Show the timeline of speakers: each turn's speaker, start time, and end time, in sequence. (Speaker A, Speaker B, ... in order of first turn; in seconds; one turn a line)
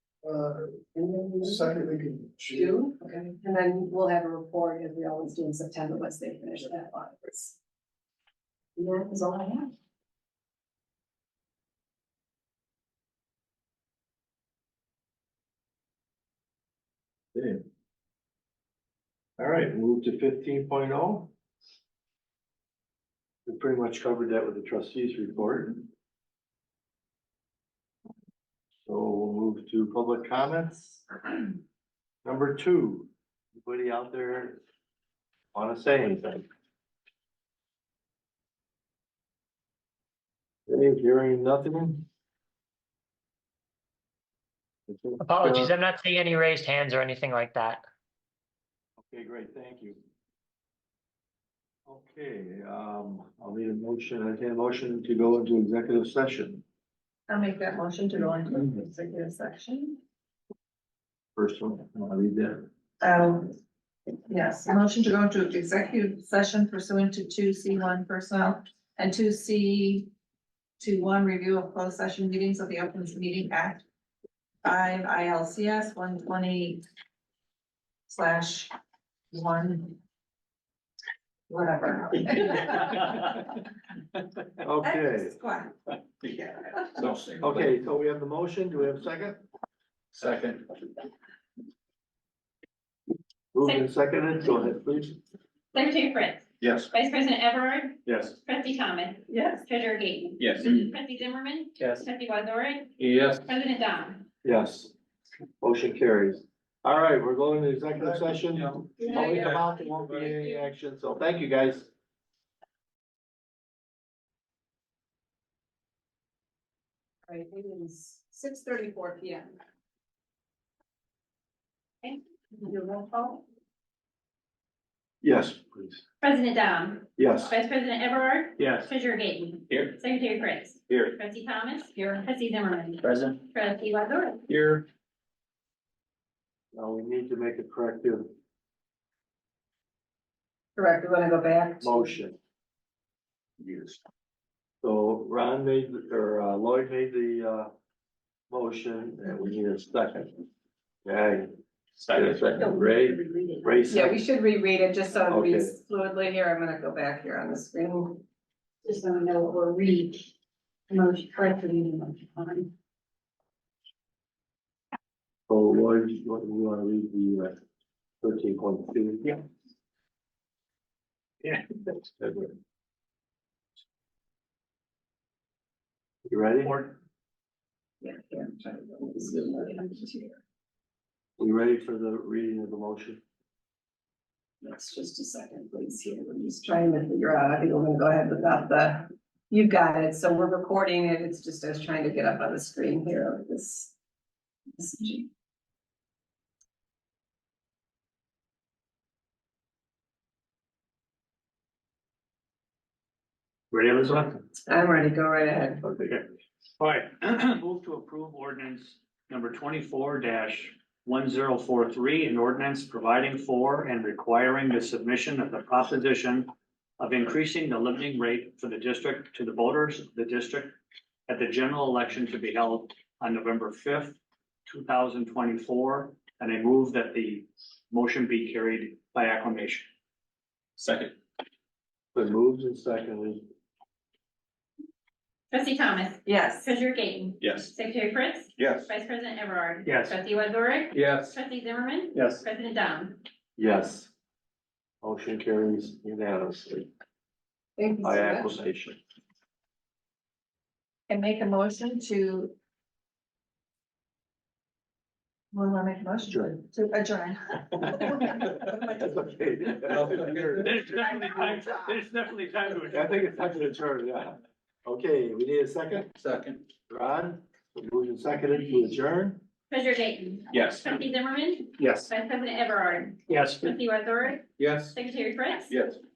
Speaker A: 0.9-7.6
Speaker A: 8.8-9.7
Speaker B: 17.3-17.6
Speaker B: 19.4-21.3
Speaker B: 23.4-25.9
Speaker B: 28.9-31.1
Speaker B: 32.2-34.6
Speaker B: 35.5-36.5
Speaker B: 40.7-42.0
Speaker B: 44.9-45.7
Speaker C: 45.2-47.8
Speaker B: 49.1-50.0
Speaker B: 51.9-56.6
Speaker D: 57.3-60.0
Speaker B: 61.4-62.6
Speaker D: 63.0-63.5
Speaker D: 64.3-70.1
Speaker D: 70.8-73.8
Speaker D: 74.6-76.8
Speaker D: 78.1-78.7
Speaker D: 79.3-80.0
Speaker D: 81.5-83.1
Speaker B: 84.6-85.3
Speaker D: 84.8-85.7
Speaker E: 86.2-87.7
Speaker B: 87.4-89.4
Speaker E: 90.1-90.7
Speaker B: 93.5-95.2
Speaker F: 95.7-104.2
Speaker E: 96.6-96.9
Speaker G: 98.1-98.3
Speaker E: 100.4-100.8
Speaker E: 103.0-103.5
Speaker B: 104.4-104.9
Speaker B: 105.6-111.9
Speaker E: 108.5-110.3
Speaker A: 117.3-119.5
Speaker A: 122.8-123.1
Speaker B: 125.2-126.0
Speaker F: 126.2-134.5
Speaker B: 127.2-127.5
Speaker G: 128.6-128.9
Speaker E: 129.7-129.9
Speaker E: 133.0-133.4
Speaker E: 134.5-134.8
Speaker B: 136.7-138.3
Speaker A: 140.8-142.2
Speaker B: 141.8-142.3
Speaker E: 143.6-144.0
Speaker B: 144.8-147.7
Speaker B: 148.5-150.4
Speaker B: 151.0-151.5
Speaker E: 152.0-152.7
Speaker B: 152.1-154.2
Speaker A: 153.9-158.2
Speaker B: 155.3-155.7
Speaker B: 165.5-167.6
Speaker B: 168.2-169.3
Speaker B: 172.2-172.5
Speaker B: 176.3-176.8
Speaker G: 176.6-176.9
Speaker A: 178.0-180.4
Speaker B: 181.4-183.2
Speaker A: 184.6-193.9
Speaker A: 194.7-195.3
Speaker G: 203.7-204.4
Speaker A: 204.7-205.8
Speaker G: 206.8-220.7
Speaker G: 221.3-229.9
Speaker E: 230.8-231.2
Speaker B: 232.1-233.4
Speaker F: 235.5-243.2
Speaker A: 236.3-236.7
Speaker E: 237.4-237.7
Speaker E: 238.6-238.9
Speaker G: 239.8-240.2
Speaker E: 240.9-241.3
Speaker G: 242.1-242.4
Speaker B: 243.6-244.1
Speaker B: 245.0-246.9
Speaker A: 247.8-248.5
Speaker B: 248.0-249.0
Speaker D: 251.1-252.5
Speaker D: 255.5-258.8
Speaker B: 256.2-256.5
Speaker B: 258.9-260.8
Speaker G: 260.6-263.2
Speaker B: 262.9-266.1
Speaker E: 266.2-266.6
Speaker B: 266.9-269.4
Speaker F: 269.7-275.8
Speaker E: 270.5-271.0
Speaker G: 271.8-272.1
Speaker G: 273.3-273.7
Speaker E: 274.6-274.9
Speaker E: 275.7-276.0